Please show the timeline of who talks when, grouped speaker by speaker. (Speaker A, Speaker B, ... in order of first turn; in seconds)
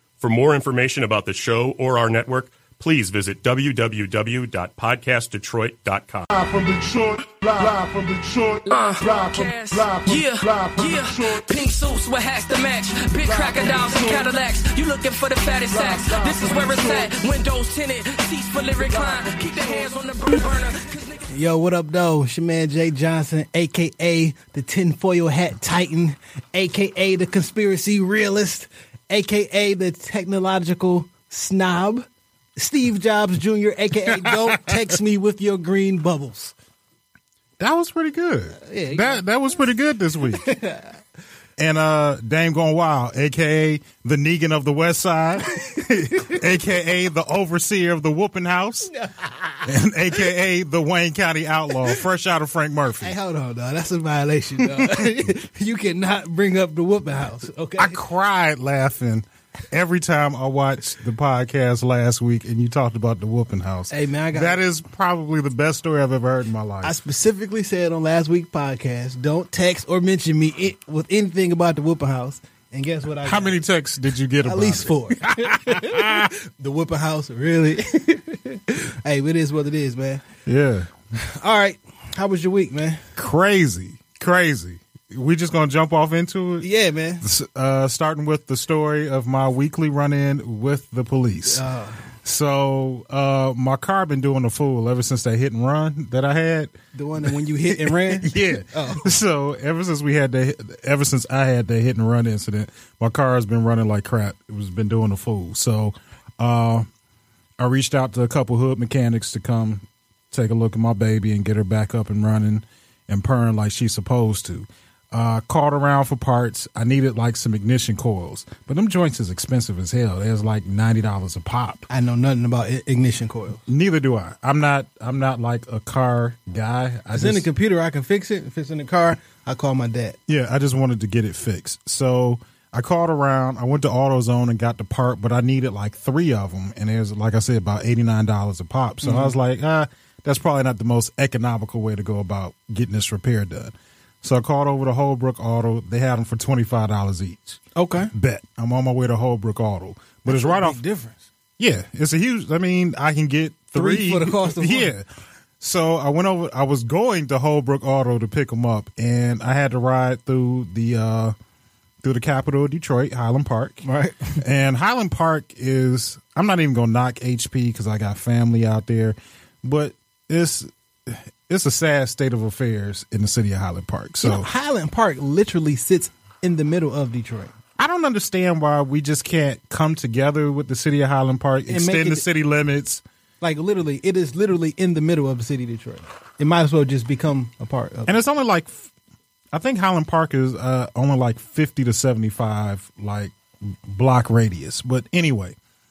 Speaker A: 0.2-6.3
Speaker B: 6.3-11.4, 13.3-14.3, 15.7-17.0
Speaker C: 8.7-21.3
Speaker D: 21.3-36.5, 38.6-39.2, 40.3-41.0, 46.1-46.4, 48.9-49.7, 53.0-58.0, 63.9-64.6, 66.8-73.6, 74.4-80.2, 81.2-83.0, 86.6-87.2, 91.5-92.0, 96.9-99.1, 121.9-123.6, 127.1-130.2, 139.0-139.3, 147.8-148.1, 150.2-151.3, 153.8-154.9, 163.8-164.4, 174.2-177.5, 181.7-182.2, 183.4-188.2
Speaker E: 34.1-34.8, 37.6-40.4, 41.6-48.9, 49.7-53.1, 54.7-55.1, 57.8-66.9, 73.2-76.3, 80.5-80.9, 83.2-86.7, 87.2-91.6, 92.2-106.9, 107.6-121.9, 123.7-127.5, 130.3-147.6, 148.1-150.8, 151.6-155.1, 155.6-161.3, 162.0-163.8, 164.4-174.5, 177.8-183.0, 188.1-188.9, 189.5-195.6